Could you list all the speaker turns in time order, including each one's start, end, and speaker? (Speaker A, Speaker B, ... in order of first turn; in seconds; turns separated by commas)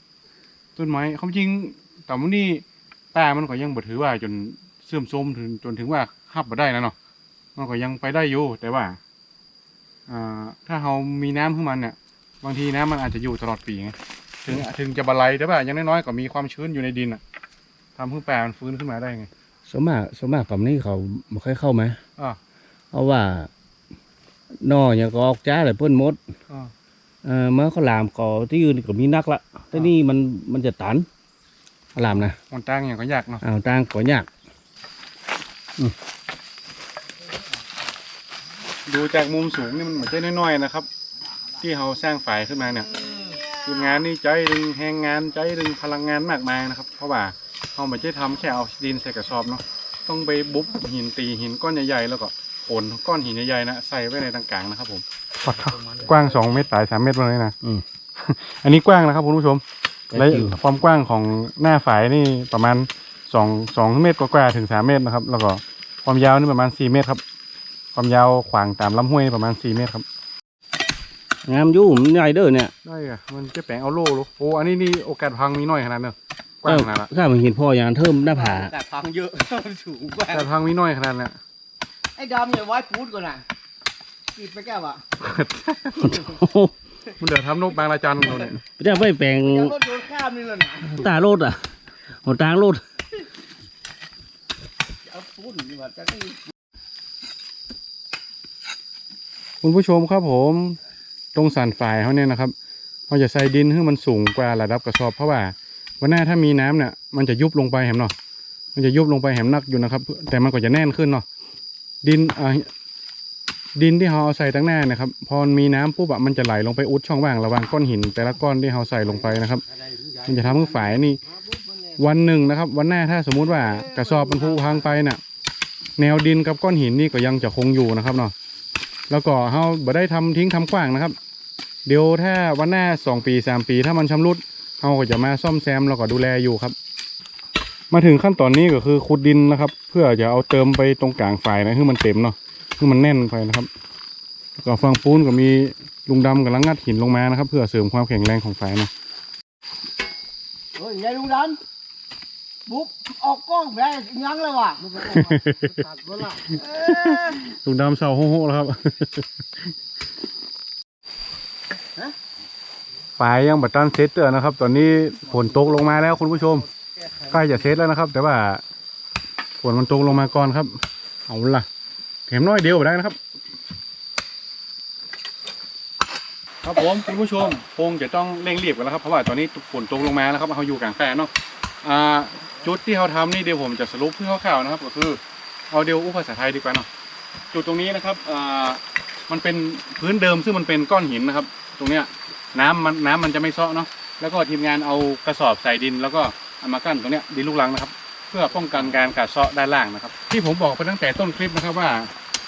Speaker A: 0.8-6.9, Speaker A: 7.5-9.0, Speaker A: 10.1-17.2, Speaker A: 17.9-19.3, Speaker B: 19.7-22.0, Speaker B: 22.9-23.5, Speaker B: 24.6-26.2, Speaker B: 27.2-31.1, Speaker B: 31.9-32.4, Speaker A: 32.1-33.4, Speaker B: 33.4-34.3, Speaker A: 38.9-40.9, Speaker A: 41.6-43.0, Speaker C: 43.1-43.4, Speaker A: 43.5-57.5, Speaker B: 55.5-56.5, Speaker A: 58.2-59.6, Speaker B: 60.1-60.6, Speaker A: 60.1-67.2, Speaker A: 67.9-70.0, Speaker B: 71.5-72.7, Speaker A: 72.8-77.1, Speaker B: 76.6-78.7, Speaker C: 78.2-80.5, Speaker A: 80.3-81.4, Speaker C: 82.2-83.4, Speaker C: 84.3-85.0, Speaker A: 85.2-86.1, Speaker B: 86.0-86.7, Speaker C: 86.0-86.4, Speaker A: 87.2-88.6, Speaker C: 88.2-91.0, Speaker B: 88.8-89.8, Speaker B: 90.8-92.8, Speaker C: 95.0-96.5, Speaker A: 99.6-100.8, Speaker A: 101.3-102.5, Speaker A: 103.1-108.1, Speaker A: 108.7-111.2, Speaker A: 112.0-112.7, Speaker A: 113.8-119.6, Speaker C: 119.7-122.0, Speaker A: 120.2-121.2, Speaker A: 122.0-125.2, Speaker C: 123.5-125.0, Speaker A: 126.0-128.3, Speaker A: 129.1-131.2, Speaker A: 131.8-136.7, Speaker A: 137.9-143.7, Speaker A: 144.6-148.9, Speaker C: 150.7-151.6, Speaker C: 152.7-157.4, Speaker A: 155.0-155.8, Speaker A: 156.5-159.7, Speaker A: 163.2-166.7, Speaker C: 165.5-167.6, Speaker A: 167.3-168.6, Speaker A: 169.6-171.7, Speaker A: 172.3-173.2, Speaker A: 176.6-181.3, Speaker A: 181.8-186.9, Speaker A: 187.5-202.1